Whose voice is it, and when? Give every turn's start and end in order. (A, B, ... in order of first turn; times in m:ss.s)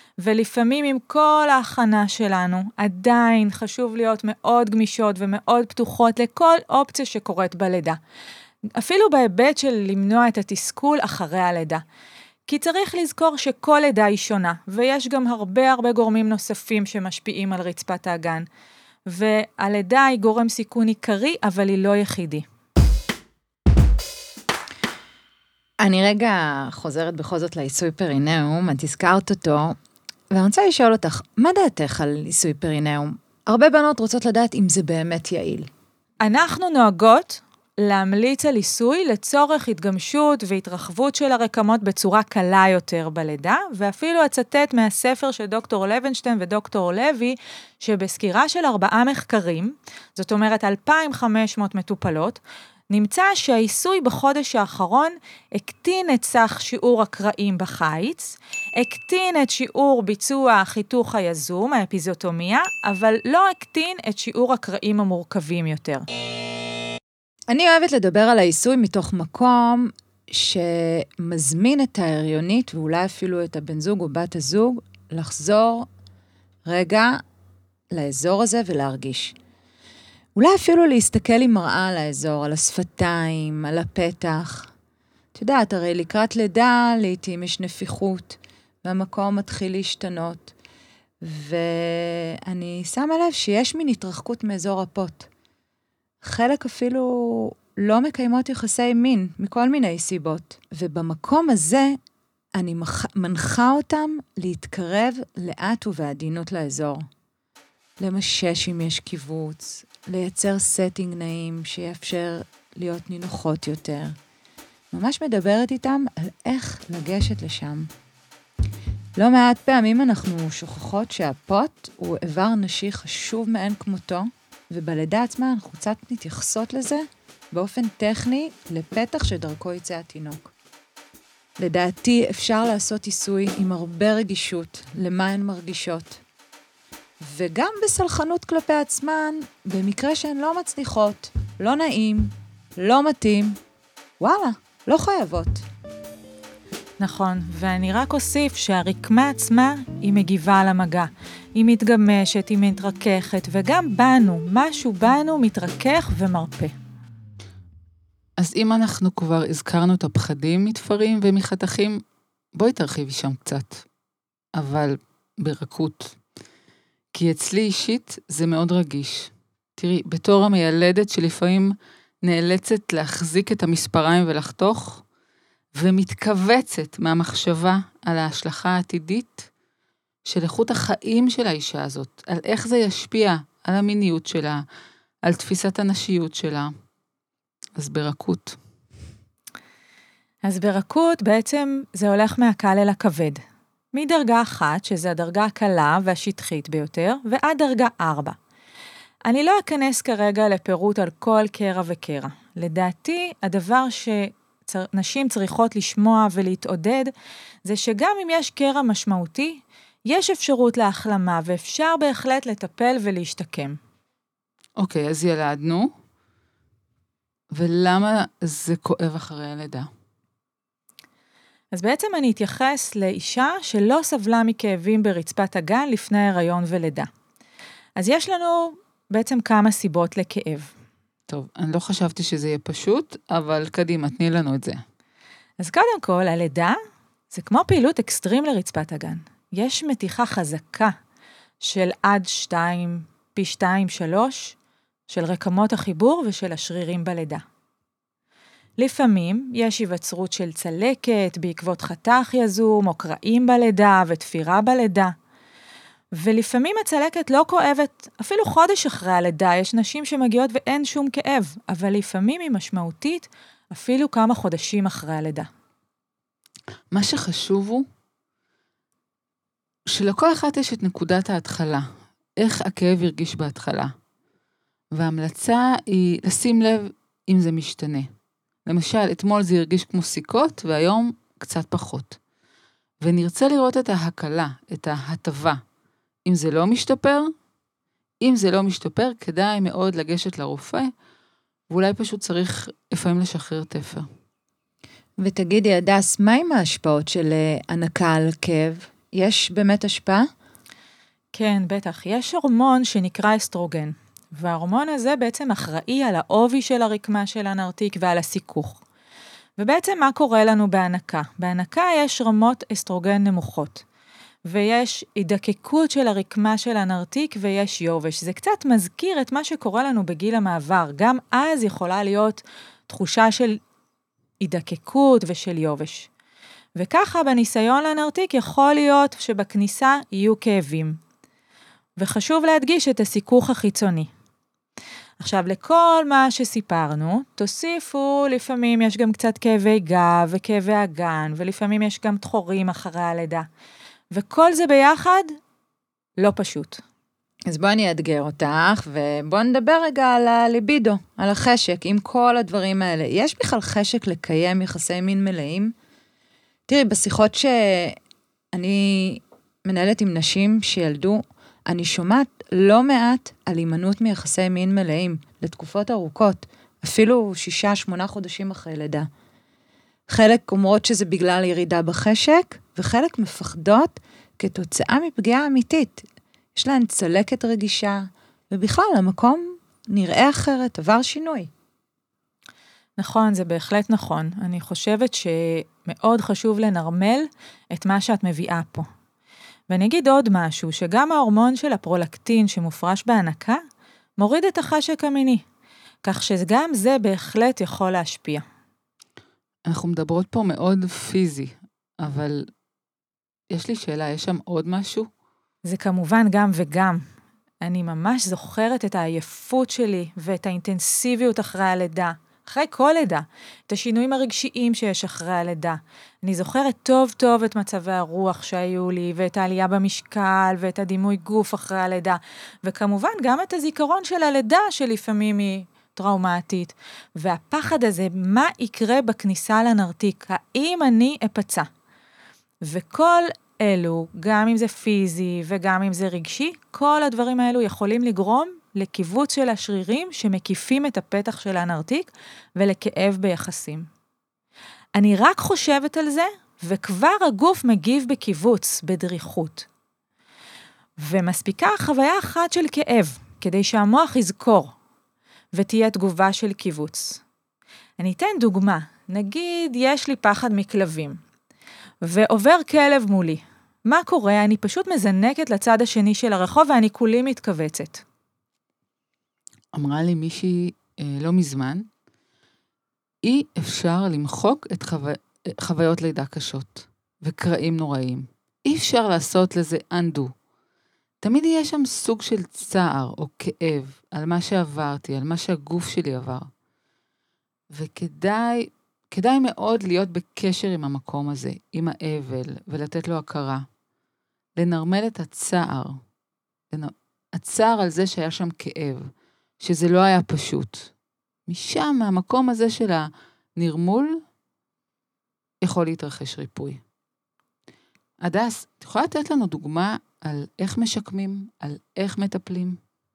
0:00.2-0:08.0 A
0:08.8-0:11.8 A
0:12.5-0:18.5 A
0:19.1-0:22.4 A
0:25.8-0:29.8 B
0:30.3-0:35.7 B
0:36.2-1:06.0 A
1:07.5-1:15.9 B
1:16.6-1:17.2 B
1:17.9-1:19.4 B
1:20.4-1:24.7 B
1:25.4-1:30.5 B
1:31.2-1:35.3 B
1:36.2-1:42.0 B
1:42.6-1:47.1 B
1:48.0-1:54.2 B
1:54.9-1:57.9 B
1:59.2-2:10.5 B
2:11.6-2:16.2 B
2:17.2-2:23.6 B
2:24.2-2:25.6 B
2:27.0-2:36.7 A
2:38.4-2:42.0 C
2:42.5-2:43.8 C
2:44.6-2:46.2 C
2:47.1-2:55.0 C
2:55.8-2:59.5 C
3:00.2-3:04.6 C
3:05.2-3:06.7 C
3:07.8-3:08.6 C
3:10.4-3:13.4 A
3:13.9-3:18.4 A
3:19.2-3:27.1 A
3:27.6-3:33.8 A
3:34.8-3:35.9 C
3:37.5-3:39.9 C
3:41.7-3:47.1 A
3:48.0-3:50.7 A
3:51.3-3:54.8 C
3:55.6-3:56.8 A
3:57.3-4:00.9 A
4:01.6-4:04.6 A
4:05.1-4:07.4 A
4:08.8-4:15.1 A
4:16.2-4:25.5 A
4:26.9-4:27.9 C
4:29.9-4:31.9 C
4:32.4-4:33.9 C
4:34.9-4:38.1 C
4:38.6-4:42.2 C
4:43.0-4:45.6 C
4:46.2-4:47.3 C
4:48.2-4:50.9 C
4:51.7-4:54.1 C
4:55.2-5:00.3 B
5:01.3-5:08.8 A
5:09.6-5:13.8 A
5:14.5-5:23.6 A
5:24.4-5:26.1 A
5:26.8-5:31.0 A
5:32.0-5:34.1 A
5:35.2-5:43.5 A
5:44.1-5:45.3 A
5:46.2-5:46.8 A
5:47.5-5:55.7 B
5:56.7-5:58.0 B
5:58.5-6:09.1 B
6:10.1-6:21.5 B
6:23.0-6:28.9 A
6:29.7-6:33.6 A
6:34.2-6:35.4 A
6:36.0-6:38.4 A
6:39.7-6:42.5 C
6:43.5-6:45.1 C
6:45.7-6:47.0 A
6:47.6-7:11.7 A
7:12.6-7:23.9 A
7:25.0-7:29.7 A
7:31.0-7:34.7 A
7:35.5-7:37.2 A
7:38.0-7:41.2 A
7:42.0-7:48.0 A
7:49.7-7:51.9 C
7:53.2-8:00.3 C
8:01.2-8:06.5 C
8:07.7-8:13.6 C
8:14.6-8:16.0 C
8:16.7-8:20.9 C
8:21.5-8:24.2 C
8:25.6-8:26.8 C
8:28.2-8:32.8 C